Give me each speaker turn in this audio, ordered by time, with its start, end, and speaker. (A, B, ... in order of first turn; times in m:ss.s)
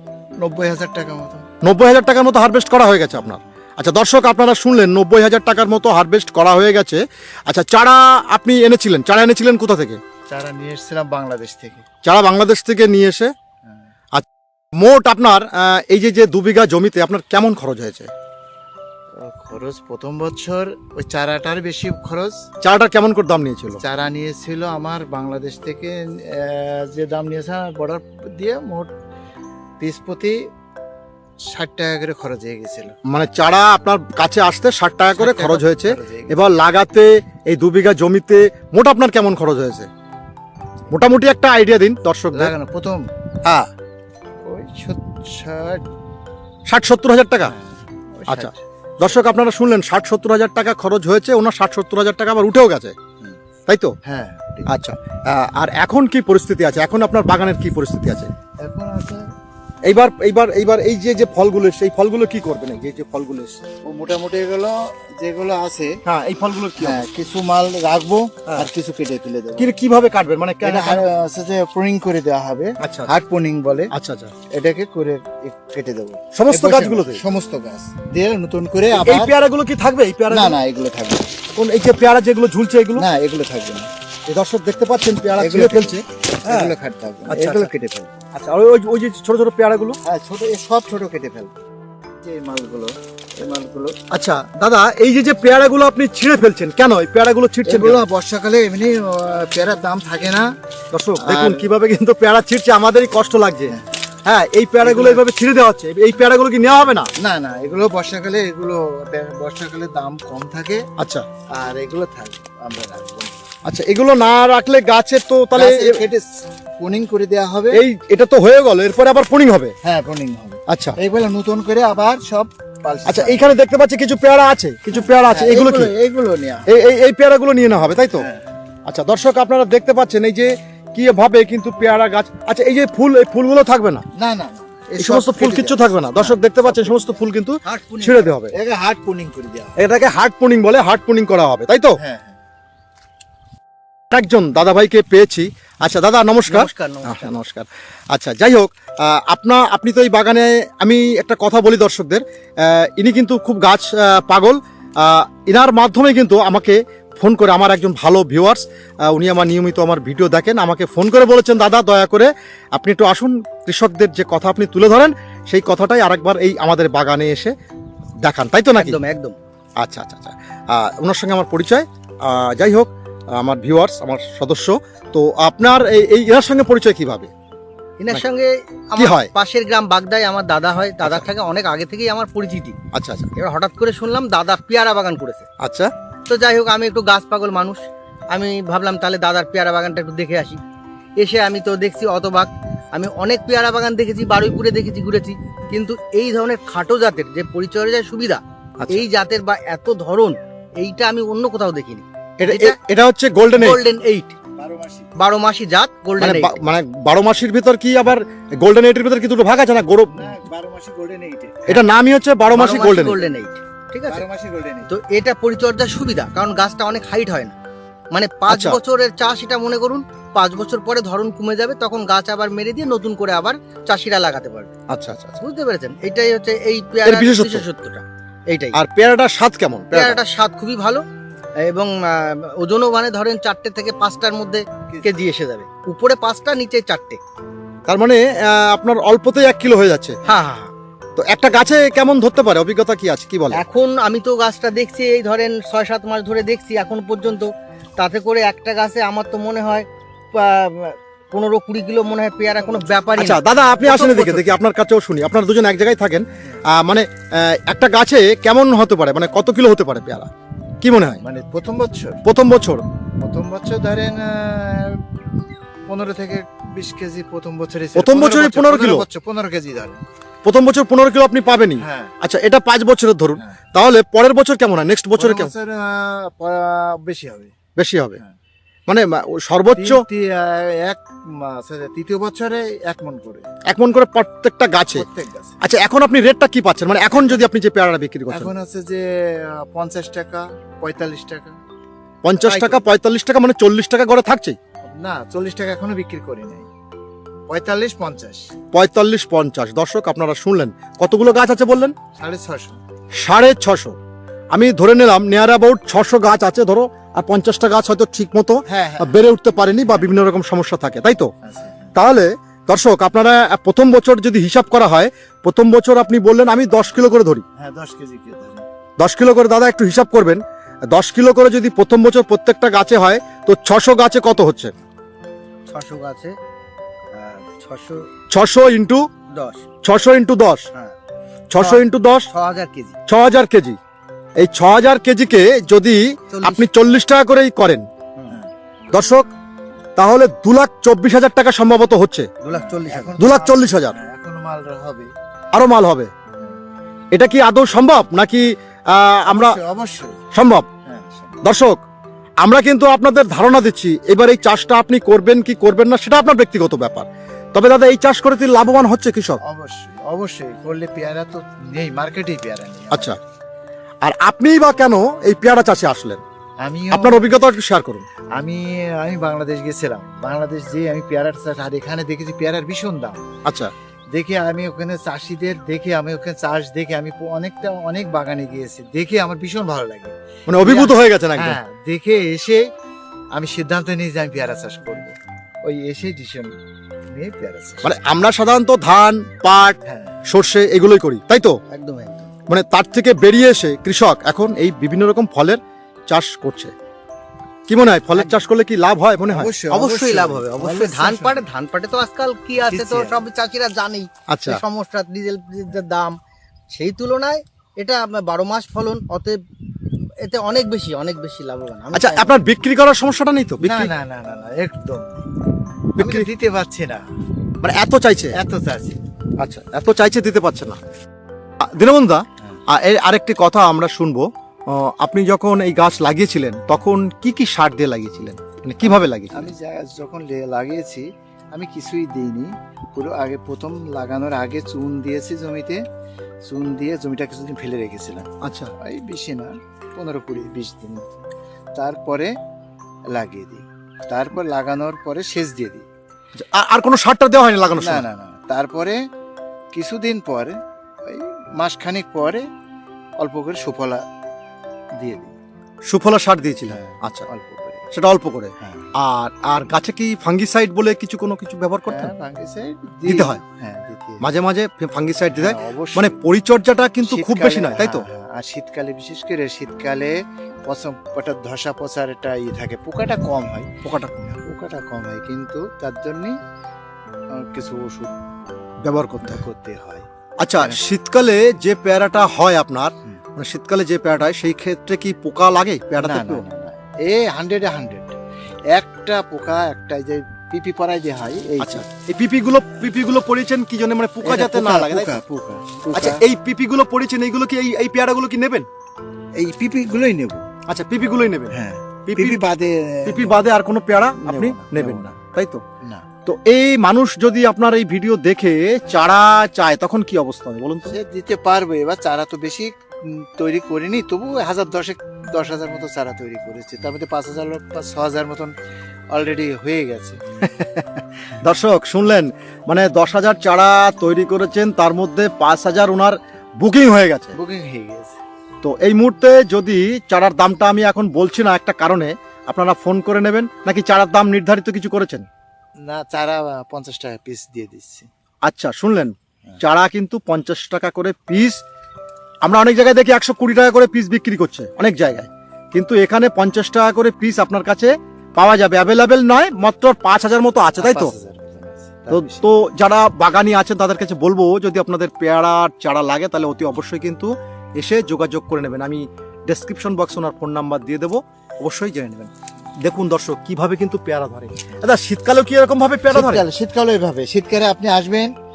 0:00.4-0:01.5 A
0:01.6-0:10.0 B
0:10.3-0:11.8 A
0:12.0-0:13.3 B
0:14.8-0:18.1 B
0:19.2-0:22.4 A
0:22.6-0:23.8 B
0:23.8-0:28.9 A
0:29.8-0:30.4 A
0:31.5-0:32.9 A
0:33.0-0:39.9 B
0:35.2-0:36.4 A
0:40.9-0:42.5 B
0:42.3-0:43.1 A
0:43.4-0:43.7 B
0:44.4-0:45.8 A
0:46.7-0:47.5 B
0:47.4-0:48.6 A
0:48.3-0:52.9 B
0:53.7-0:53.9 B
0:54.0-0:54.7 A
0:54.7-0:58.3 B
0:58.6-0:59.2 A
0:59.8-1:03.6 B
1:03.8-1:06.0 A
1:06.0-1:07.0 B
1:06.8-1:09.7 A
1:09.6-1:11.0 B
1:10.6-1:13.9 A
1:12.8-1:13.2 B
1:13.9-1:14.3 B
1:14.5-1:19.3 A
1:16.3-1:17.2 B
1:19.0-1:20.6 B
1:20.3-1:21.4 A
1:21.6-1:23.1 B
1:23.0-1:23.9 A
1:24.3-1:26.7 B
1:25.4-1:28.2 A
1:27.3-1:27.7 B
1:28.3-1:30.0 B
1:30.0-1:31.6 A
1:32.2-1:34.0 A
1:34.1-1:38.0 B
1:37.6-1:40.5 A
1:40.9-1:47.1 B
1:41.2-1:41.7 A
1:44.8-1:45.2 A
1:47.2-1:50.9 A
1:51.0-1:51.2 B
1:51.5-1:53.4 A
1:53.6-1:56.0 B
1:55.5-1:57.8 A
1:57.7-1:59.7 B
1:59.8-2:03.5 A
2:00.7-2:01.0 B
2:03.0-2:05.9 B
2:05.1-2:06.7 A
2:06.7-2:08.3 B
2:08.2-2:08.4 A
2:08.8-2:14.0 B
2:14.2-2:17.2 A
2:15.0-2:18.5 B
2:17.6-2:18.3 C
2:18.5-2:19.8 A
2:19.8-2:22.0 B
2:22.0-2:22.4 A
2:24.1-2:47.5 B
2:26.5-2:27.4 C
2:48.2-2:49.0 B
2:48.8-2:49.3 C
2:49.8-2:57.3 B
2:58.0-3:02.8 C
2:59.0-2:59.3 B
3:01.0-3:01.3 B
3:02.9-3:03.3 B
3:03.4-3:05.4 C
3:05.6-3:05.9 B
3:06.3-3:07.8 C
3:08.3-3:10.6 C
3:11.2-3:22.8 C
3:18.8-3:19.0 B
3:22.4-3:23.8 B
3:23.5-3:24.3 C
3:24.6-3:25.1 A
3:25.2-3:26.6 C
3:26.2-3:30.3 B
3:30.2-3:31.7 A
3:31.6-3:33.2 B
3:32.5-3:34.2 C
3:34.1-3:34.9 A
3:34.9-3:37.6 C
3:38.1-3:44.7 C
3:38.5-3:38.8 B
3:44.9-3:45.4 B
3:45.4-3:48.8 C
3:47.0-3:47.6 B
3:48.7-3:50.2 B
3:49.9-3:51.0 C
3:51.6-3:57.2 C
3:57.9-4:00.2 B
4:00.2-4:00.7 C
4:01.2-4:03.6 B
4:03.5-4:13.4 C
4:13.2-4:20.3 B
4:13.8-4:14.4 A
4:20.8-4:21.2 B
4:21.2-4:22.2 A
4:22.2-4:22.8 B
4:23.2-4:25.0 A
4:25.9-4:30.0 A
4:28.0-4:29.0 B
4:30.4-4:35.5 B
4:31.8-4:32.1 A
4:35.2-4:37.5 A
4:37.8-4:38.2 B
4:38.9-4:40.0 B
4:39.7-4:43.5 A
4:43.7-4:45.0 B
4:44.9-4:45.6 A
4:45.6-4:48.5 B
4:47.1-4:47.4 A
4:48.3-4:51.6 A
4:52.2-4:54.6 B
4:52.4-4:52.8 A
4:54.8-4:56.7 A
4:57.5-4:58.5 A
4:58.7-5:01.9 B
5:02.1-5:02.8 A
5:03.2-5:04.0 B
5:04.5-5:11.3 B
5:08.7-5:09.2 A
5:11.4-5:11.9 A
5:11.9-5:17.4 B
5:17.6-5:18.6 A
5:19.0-5:24.7 B
5:25.6-5:26.4 C
5:27.1-5:28.0 C
5:28.3-5:29.0 B
5:29.3-5:29.6 C
5:29.8-5:30.6 B
5:31.5-5:32.3 B
5:31.6-5:33.0 C
5:33.1-5:33.8 B
5:34.4-5:37.8 B
5:36.3-5:36.6 C
5:38.9-5:39.3 B
5:40.0-5:42.3 B
5:42.4-5:43.2 C
5:42.5-5:45.1 A
5:43.2-5:44.0 B
5:45.5-5:46.1 B
5:47.1-5:49.6 B
5:49.3-5:50.3 A
5:50.3-5:50.7 B
5:50.8-5:51.4 A
5:51.4-5:51.8 B
5:52.4-5:59.4 B
5:59.4-6:03.2 A
6:02.9-6:03.2 B
6:04.0-6:06.2 B
6:06.6-6:07.3 A
6:06.9-6:08.0 B
6:08.3-6:13.2 A
6:13.4-6:13.7 B
6:14.1-6:22.7 A
6:20.5-6:21.6 B
6:23.3-6:26.5 A
6:27.1-6:27.9 A
6:27.8-6:31.5 B
6:29.8-6:30.2 A
6:31.7-6:32.3 C
6:32.5-6:36.7 B
6:37.7-6:39.5 B
6:38.2-6:38.4 C
6:39.3-6:41.4 A
6:39.7-6:46.1 C
6:42.6-6:43.2 A
6:44.3-6:44.6 B
6:46.7-6:49.4 C
6:50.2-6:52.4 C
6:51.9-6:53.9 B
6:53.6-6:55.2 A
6:56.0-6:57.0 A
6:56.0-6:56.3 B
6:57.6-6:58.4 B
6:58.3-6:59.0 A
6:59.4-7:00.8 B
7:01.6-7:09.5 B
7:08.8-7:15.8 A
7:16.4-7:18.3 A
7:18.4-7:18.7 B
7:18.8-7:21.1 A
7:21.7-7:22.3 A
7:23.1-7:25.8 A
7:26.3-7:28.0 B
7:27.8-7:29.0 A
7:29.7-7:32.4 A
7:33.2-7:34.0 A
7:35.0-7:35.3 A
7:35.9-7:37.3 B
7:36.7-7:37.9 A
7:37.9-7:42.1 B
7:38.6-7:38.9 A
7:41.8-7:44.2 A
7:43.0-7:43.4 B
7:44.2-7:48.0 B
7:45.4-7:46.2 A
7:47.0-7:50.1 A
7:50.7-7:53.7 A
7:53.8-7:54.3 B
7:54.2-7:56.4 A
7:57.3-7:58.1 A
7:58.8-7:59.4 B
7:59.2-8:00.0 A
8:00.4-8:06.4 B
8:00.6-8:00.8 A
8:06.0-8:08.1 A
8:08.7-8:11.8 A
8:11.6-8:15.2 B
8:14.2-8:16.2 A
8:15.9-8:18.7 B
8:19.4-8:20.4 A
8:20.7-8:22.4 B
8:21.5-8:23.4 A
8:23.0-8:25.6 B
8:24.2-8:25.2 A
8:26.2-8:30.9 B
8:30.9-8:38.5 A
8:39.1-8:40.2 A
8:40.4-8:47.3 B
8:47.3-8:48.2 A
8:48.6-8:55.2 B
8:55.8-8:58.1 A
8:58.4-9:01.6 B
9:02.4-9:11.1 B
9:10.8-9:12.4 A
9:12.1-9:26.4 B
9:26.1-9:28.3 A